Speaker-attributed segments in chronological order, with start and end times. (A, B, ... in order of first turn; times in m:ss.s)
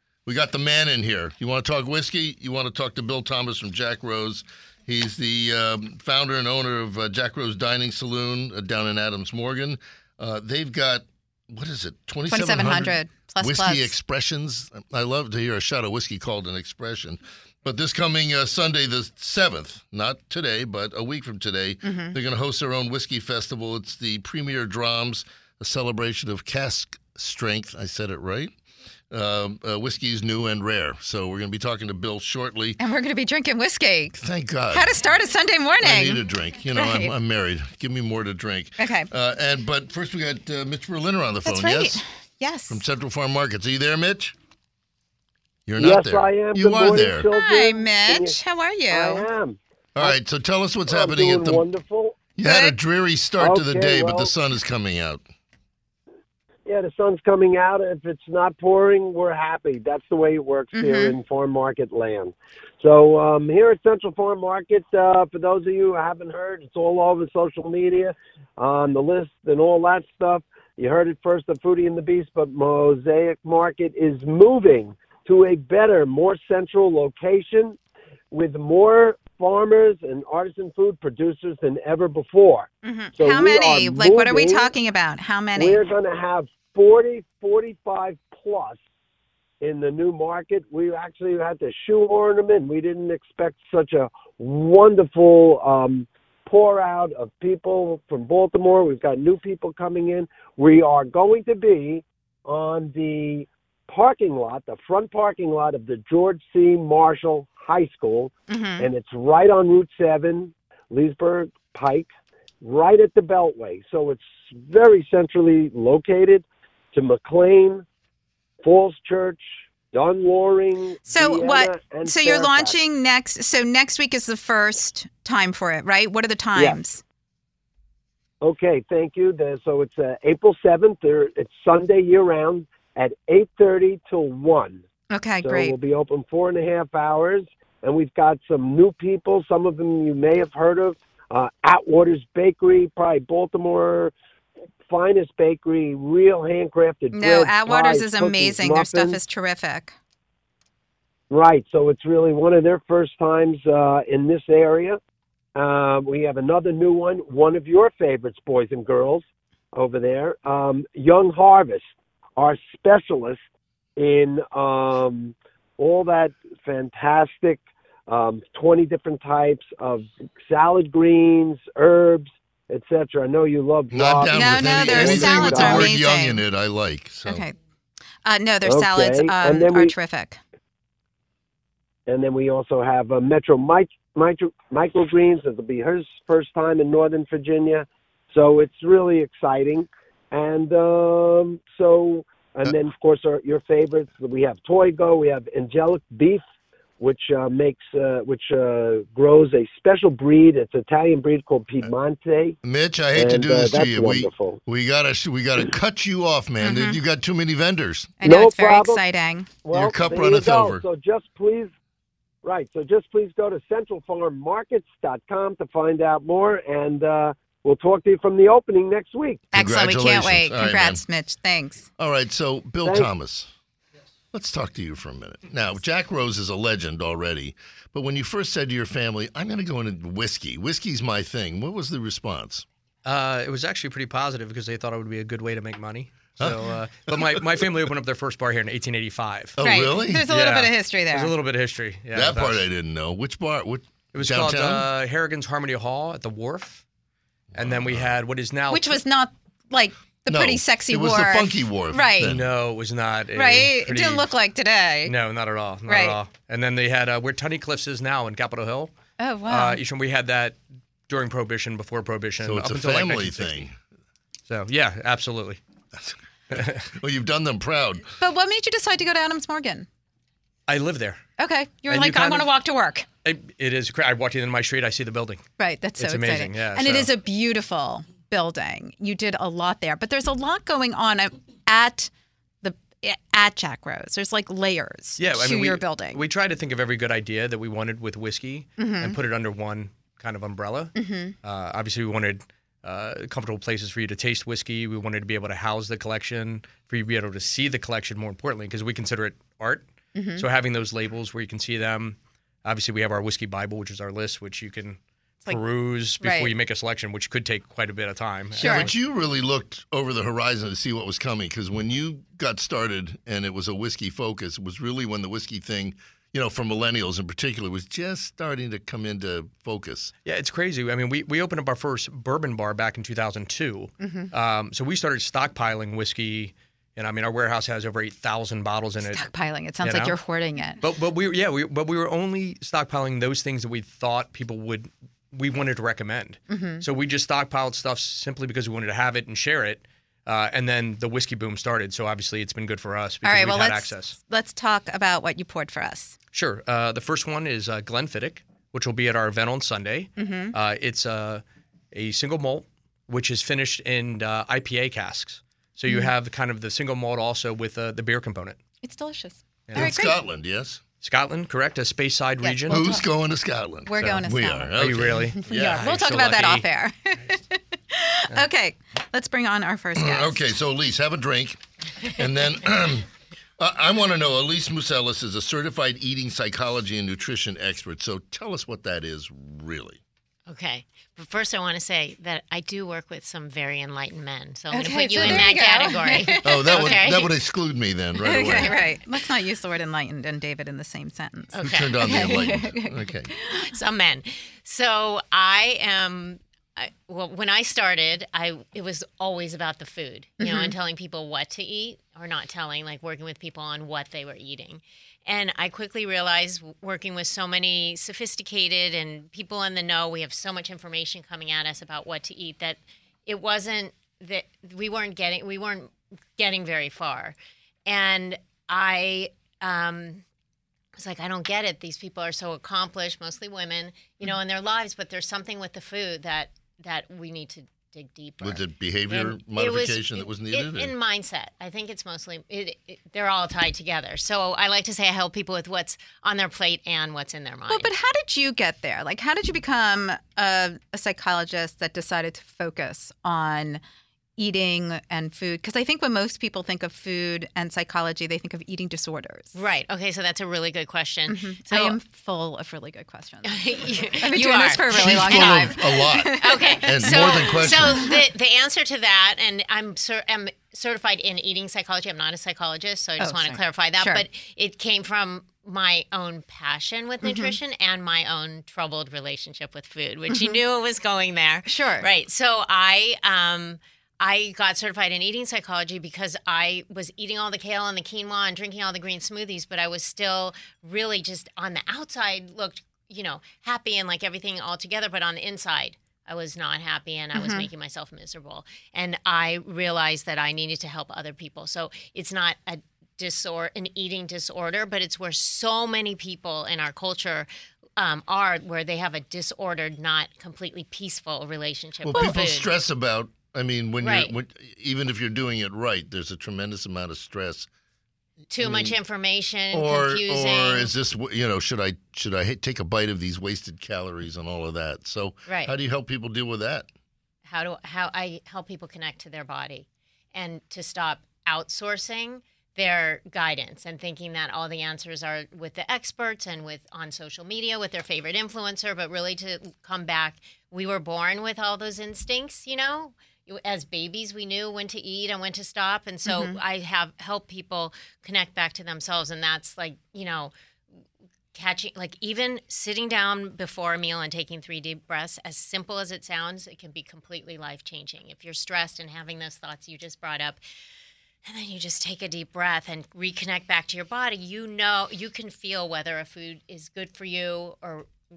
0:00.2-0:28.5 A
0:12.3-0:13.9 B
0:21.8-0:22.2 B
0:29.1-0:32.8 A
0:32.8-0:37.1 B
0:34.2-0:34.9 A
0:35.8-0:42.0 A
0:38.8-0:39.1 B
0:41.4-0:42.8 B
0:42.7-0:44.3 A
0:45.6-0:47.3 A
0:45.8-0:48.4 C
0:47.3-0:49.3 B
0:48.9-0:50.1 C
0:50.0-0:51.6 A
0:50.9-0:52.2 C
0:52.3-0:55.2 A
0:52.4-0:52.7 B
0:53.4-0:54.3 C
0:56.6-1:17.8 C
1:00.7-1:01.1 B
1:18.3-1:24.7 C
1:22.8-1:25.8 B
1:25.6-1:28.8 C
1:29.6-1:52.1 C
1:48.5-1:48.9 B
1:52.6-1:57.8 C
1:58.6-2:02.7 C
2:01.1-2:07.0 B
2:08.4-2:14.8 C
2:15.1-2:15.8 B
2:15.4-2:24.1 C
2:24.9-2:29.2 C
2:27.1-2:30.0 B
2:31.3-2:35.0 C
2:35.6-2:43.4 C
2:44.0-2:55.9 C
2:53.9-2:57.4 A
2:54.3-2:56.4 B
2:57.2-2:57.5 B
2:58.2-3:00.4 B
2:58.6-2:59.9 C
3:02.1-3:16.4 C
3:17.0-3:22.6 C
3:22.6-3:28.1 A
3:23.2-3:24.6 C
3:26.6-3:27.0 B
3:28.2-3:29.5 B
3:28.2-3:29.0 C
3:29.6-3:31.7 C
3:29.7-3:30.8 A
3:32.4-3:39.4 C
3:39.5-3:41.9 B
3:39.5-3:41.0 A
3:42.0-3:43.5 A
3:42.8-3:43.1 C
3:44.3-3:52.6 A
3:53.0-3:59.6 D
3:56.4-3:57.4 A
3:59.6-4:00.2 A
3:59.6-4:01.3 B
4:00.3-4:02.6 D
4:02.1-4:04.8 A
4:04.1-4:06.8 D
4:07.5-4:09.0 D
4:07.5-4:08.1 A
4:08.7-4:12.3 B
4:10.3-4:12.5 A
4:12.2-4:14.3 D
4:13.4-4:15.1 B
4:15.0-4:18.9 D
4:15.9-4:16.2 B
4:19.2-4:19.8 B
4:19.5-4:23.6 D
4:22.4-4:23.7 A
4:24.5-4:25.6 D
4:26.0-4:28.2 A
4:26.5-4:26.9 D
4:28.2-4:29.9 B
4:30.7-4:31.2 D
4:31.4-4:33.0 B
4:31.9-4:32.5 D
4:33.2-4:35.4 D
4:35.6-4:42.1 B
4:36.0-4:37.1 D
4:42.6-4:46.2 B
4:45.2-4:59.8 D
4:48.8-4:49.1 B
4:50.9-4:51.3 B
5:00.1-5:00.4 B
5:00.4-5:08.9 D
5:06.2-5:06.5 B
5:08.6-5:08.9 B
5:08.6-5:20.1 A
5:20.2-5:29.3 D
5:24.0-5:24.3 B
5:29.0-5:30.8 B
5:29.8-5:30.2 D
5:30.8-5:44.2 D
5:36.5-5:36.8 B
5:43.2-5:46.2 B
5:46.3-5:58.6 D
5:50.2-5:50.5 B
5:58.8-6:00.2 B
5:59.7-5:59.9 D
5:59.7-6:00.8 A
6:01.0-6:02.8 D
6:02.4-6:03.0 B
6:02.7-6:05.9 A
6:03.8-6:04.7 B
6:04.7-6:06.6 D
6:05.4-6:10.4 B
6:10.0-6:20.0 A
6:20.5-6:27.3 E
6:24.7-6:26.8 B
6:25.2-6:25.5 A
6:26.4-6:28.7 A
6:28.2-6:33.7 B
6:28.4-6:28.9 E
6:31.5-6:32.5 E
6:31.6-6:33.3 A
6:33.6-7:00.2 E
6:40.4-6:40.7 B
7:01.0-7:17.9 E
7:08.4-7:10.9 A
7:17.7-7:23.8 B
7:24.4-7:29.6 B
7:29.5-7:32.0 E
7:31.3-7:33.6 B
7:33.4-8:22.7 E
7:34.2-7:38.2 B
7:34.9-7:38.1 A
7:43.2-7:44.2 B
7:47.2-7:47.5 B
7:50.3-7:50.6 B
7:51.6-7:52.1 B
8:07.3-8:07.7 B
8:22.0-8:27.7 A
8:22.1-8:22.4 B
8:24.0-8:24.3 E
8:28.5-8:30.9 E
8:28.6-8:29.0 A
8:29.7-8:36.9 A
8:35.4-8:35.7 E
8:37.4-9:00.5 E
8:56.2-8:56.6 B
9:01.5-9:10.6 E
9:11.4-9:18.1 E